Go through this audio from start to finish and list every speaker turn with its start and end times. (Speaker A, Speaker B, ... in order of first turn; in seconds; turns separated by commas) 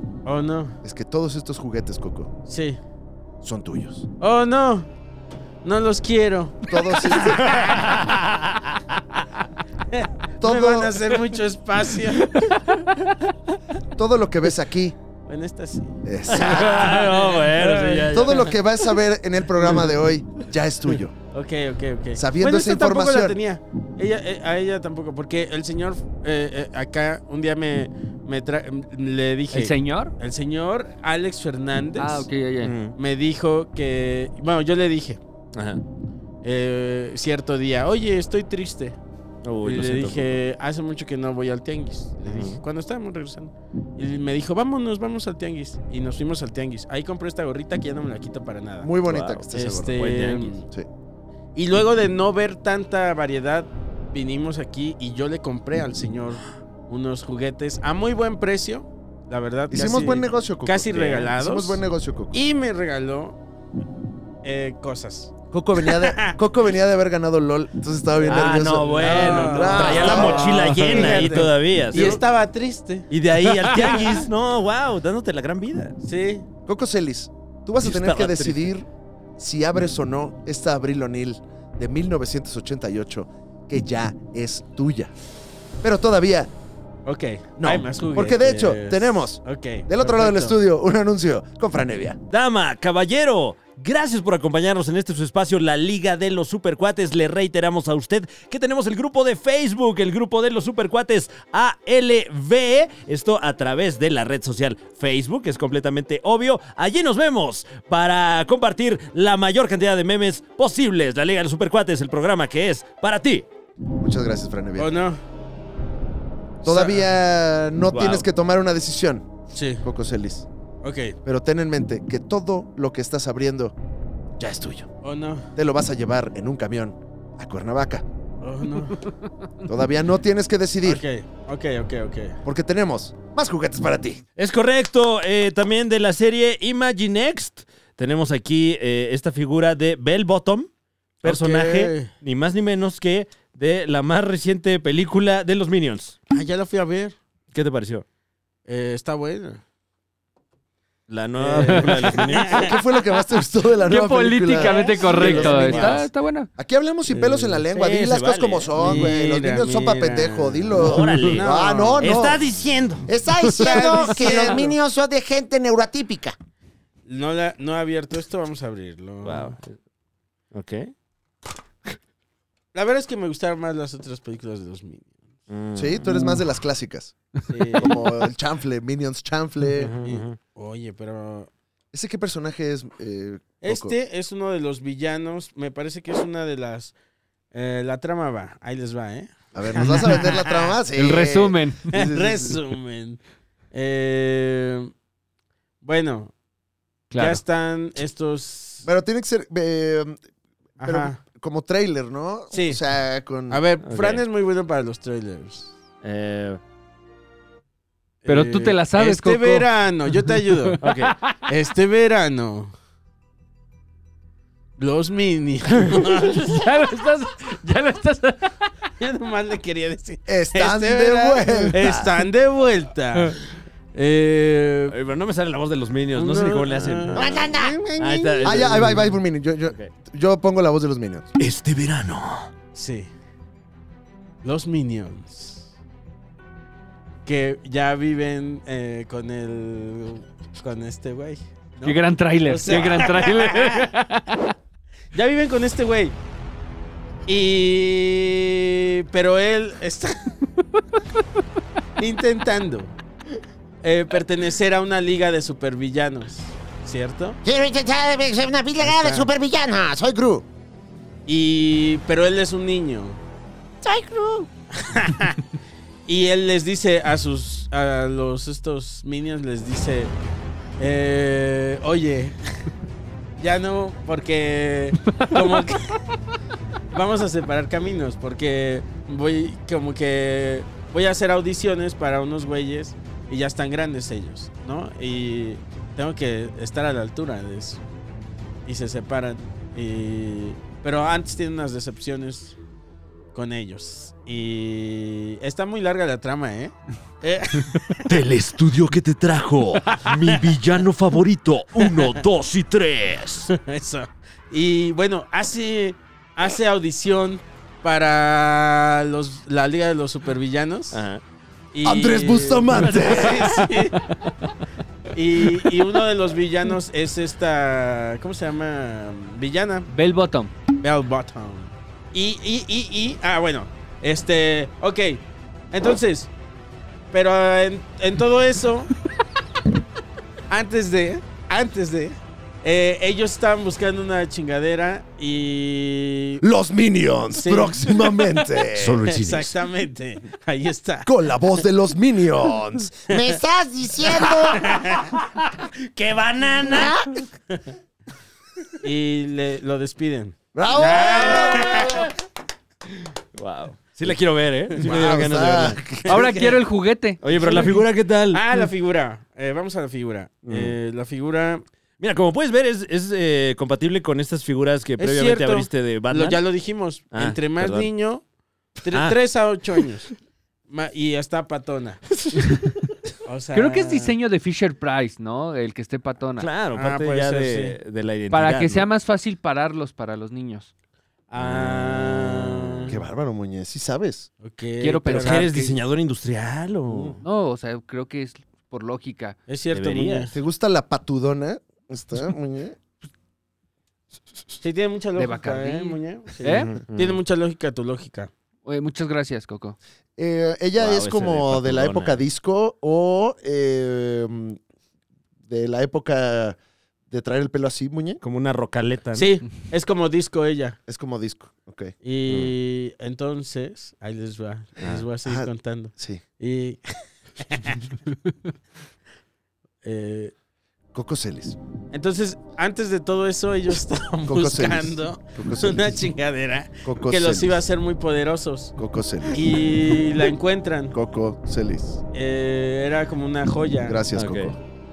Speaker A: 0.2-0.8, Speaker B: 0.8-2.3, Speaker A: 2.5-2.8, Speaker B: 3.4-4.1, Speaker A: 4.2-4.9, Speaker A: 5.6-8.0, Speaker B: 6.7-7.5, Speaker C: 7.4-9.2, Speaker A: 9.9-12.5, Speaker B: 10.4-11.0, Speaker B: 13.9-14.9, Speaker A: 15.3-18.6, Speaker B: 16.0-16.9, Speaker C: 16.3-18.5, Speaker B: 18.1-21.1, Speaker A: 21.3-32.3, Speaker B: 22.2-23.4, Speaker D: 29.5-30.1, Speaker D: 32.0-32.8, Speaker C: 32.6-33.0, Speaker A: 32.9-35.2, Speaker C: 35.5-35.8, Speaker A: 36.4-39.0, Speaker C: 39.4-40.4, Speaker A: 39.6-49.0, Speaker C: 42.2-42.6, Speaker B: 48.8-50.1, Speaker C: 49.0-50.6, Speaker A: 49.5-50.7, Speaker A: 51.5-63.4, Speaker B: 59.7-62.4, Speaker A: 64.4-66.4, Speaker B: 65.5-71.4, Speaker C: 68.2-72.2, Speaker A: 68.3-74.3, Speaker C: 73.1-76.0, Speaker A: 76.0-76.5, Speaker B: 76.7-78.9, Speaker C: 77.8-78.7, Speaker B: 79.4-85.1, Speaker B: 85.8-86.5, Speaker A: 87.1-90.6, Speaker B: 87.6-92.2, Speaker C: 92.3-113.5, Speaker B: 114.0-114.9, Speaker A: 114.8-115.2, Speaker A: 116.6-117.1, Speaker B: 116.6-119.3, Speaker C: 117.9-118.3, Speaker A: 119.5-119.8, Speaker B: 119.8-120.5, Speaker A: 120.8-121.2, Speaker B: 121.2-123.7, Speaker B: 124.4-124.9, Speaker A: 125.0-125.5, Speaker B: 125.5-128.1, Speaker A: 128.4-129.1, Speaker B: 129.7-131.0, Speaker A: 130.8-132.4, Speaker B: 132.4-134.2, Speaker C: 134.4-140.7, Speaker A: 141.2-142.1, Speaker C: 141.2-146.2, Speaker A: 146.3-147.2, Speaker C: 147.5-148.1, Speaker A: 148.7-149.6, Speaker C: 151.1-152.8, Speaker A: 151.4-152.8, Speaker B: 152.5-156.0, Speaker D: 153.8-156.5, Speaker A: 154.6-156.0, Speaker C: 155.1-156.1, Speaker B: 156.6-162.4, Speaker A: 157.1-157.6, Speaker C: 157.7-159.1, Speaker A: 158.8-162.1, Speaker C: 160.8-163.1, Speaker B: 163.1-163.9, Speaker E: 163.1-166.3, Speaker A: 163.5-164.8, Speaker A: 167.1-169.6, Speaker C: 169.2-169.8, Speaker C: 170.5-170.9, Speaker A: 172.7-175.3, Speaker C: 175.5-176.2, Speaker B: 175.8-177.2, Speaker A: 177.5-178.0, Speaker B: 177.8-179.9, Speaker C: 179.8-180.4, Speaker A: 180.0-181.5, Speaker B: 181.9-183.9, Speaker A: 183.6-186.9, Speaker A: 187.5-190.8, Speaker B: 189.6-192.6, Speaker D: 190.9-192.0, Speaker A: 191.9-193.2, Speaker A: 193.7-194.9, Speaker A: 195.8-196.3, Speaker D: 197.1-197.4, Speaker A: 197.2-198.9, Speaker B: 198.8-200.2, Speaker A: 200.8-201.2, Speaker B: 200.8-203.6, Speaker A: 202.5-202.8, Speaker A: 203.5-205.7, Speaker C: 203.8-204.2, Speaker C: 206.0-206.6, Speaker A: 208.2-210.8, Speaker D: 208.3-209.7, Speaker D: 210.3-211.3, Speaker C: 210.8-211.2, Speaker A: 211.5-212.7, Speaker A: 214.8-216.6, Speaker D: 216.1-218.5, Speaker A: 219.0-225.0, Speaker B: 220.3-222.1, Speaker C: 224.9-229.1, Speaker A: 226.2-227.3, Speaker E: 227.1-228.5, Speaker B: 228.4-231.3, Speaker C: 229.7-229.9, Speaker C: 231.4-232.5, Speaker A: 232.7-233.1, Speaker A: 234.4-235.7, Speaker A: 237.3-243.9, Speaker D: 241.8-244.4, Speaker A: 245.1-246.2, Speaker A: 247.3-250.4, Speaker A: 252.0-252.9, Speaker A: 253.8-257.4, Speaker E: 257.4-260.4, Speaker A: 258.8-259.3, Speaker A: 261.3-263.2, Speaker E: 263.8-264.5, Speaker A: 264.7-265.4, Speaker A: 266.1-270.1, Speaker A: 270.8-272.4, Speaker A: 273.4-276.0, Speaker D: 275.1-275.4, Speaker A: 276.9-287.8, Speaker A: 288.7-292.6, Speaker A: 293.3-298.1, Speaker C: 298.1-303.5, Speaker A: 300.3-300.6, Speaker A: 301.8-302.2, Speaker A: 303.5-311.0, Speaker C: 310.9-311.2, Speaker A: 311.7-314.0, Speaker B: 311.8-313.7, Speaker D: 312.9-314.5, Speaker A: 315.1-319.9, Speaker D: 319.9-320.5, Speaker A: 320.8-326.3, Speaker A: 327.1-328.9, Speaker A: 330.5-336.4, Speaker B: 336.4-339.1, Speaker A: 337.4-338.3, Speaker C: 338.7-339.5, Speaker A: 338.9-341.6, Speaker B: 341.1-343.0, Speaker A: 343.1-343.4, Speaker E: 343.1-344.9, Speaker A: 344.3-345.1, Speaker C: 345.1-347.0, Speaker E: 346.6-347.1, Speaker A: 348.8-352.1, Speaker B: 350.5-352.1, Speaker C: 351.3-352.0, Speaker C: 353.4-356.3, Speaker B: 354.8-356.2, Speaker A: 354.9-355.2, Speaker D: 356.1-357.8, Speaker A: 356.1-356.6, Speaker C: 357.2-358.4, Speaker A: 357.4-357.8, Speaker A: 358.3-361.6, Speaker C: 360.5-360.8, Speaker C: 362.0-366.4, Speaker A: 365.0-368.2, Speaker C: 367.1-367.9, Speaker A: 368.8-370.1, Speaker C: 368.9-369.2, Speaker A: 370.7-372.2, Speaker A: 373.2-374.2, Speaker D: 373.5-376.5, Speaker C: 376.4-378.9, Speaker A: 376.7-377.8, Speaker D: 378.3-380.7, Speaker C: 381.3-382.9, Speaker A: 381.3-382.9, Speaker B: 382.9-384.3, Speaker A: 384.4-385.5, Speaker D: 384.8-385.8, Speaker C: 385.1-387.2, Speaker B: 386.9-387.2, Speaker D: 387.2-389.4, Speaker A: 389.5-390.4, Speaker C: 389.7-390.3, Speaker B: 390.3-392.8, Speaker A: 394.6-398.3, Speaker D: 395.2-396.8, Speaker C: 396.5-397.2, Speaker D: 398.6-399.8, Speaker B: 400.2-404.6, Speaker C: 400.8-402.2, Speaker B: 405.5-406.6, Speaker B: 407.1-408.2, Speaker C: 408.2-409.3, Speaker A: 409.1-410.8, Speaker B: 410.9-411.9, Speaker A: 412.0-417.9, Speaker C: 414.8-415.1, Speaker B: 415.2-416.2, Speaker A: 419.8-420.3, Speaker B: 420.9-421.6, Speaker A: 421.9-428.8, Speaker B: 424.3-426.1, Speaker B: 426.8-427.6, Speaker B: 428.8-429.4, Speaker A: 429.3-430.9, Speaker B: 430.9-432.0, Speaker A: 432.1-434.0, Speaker B: 433.9-434.6, Speaker C: 434.1-434.6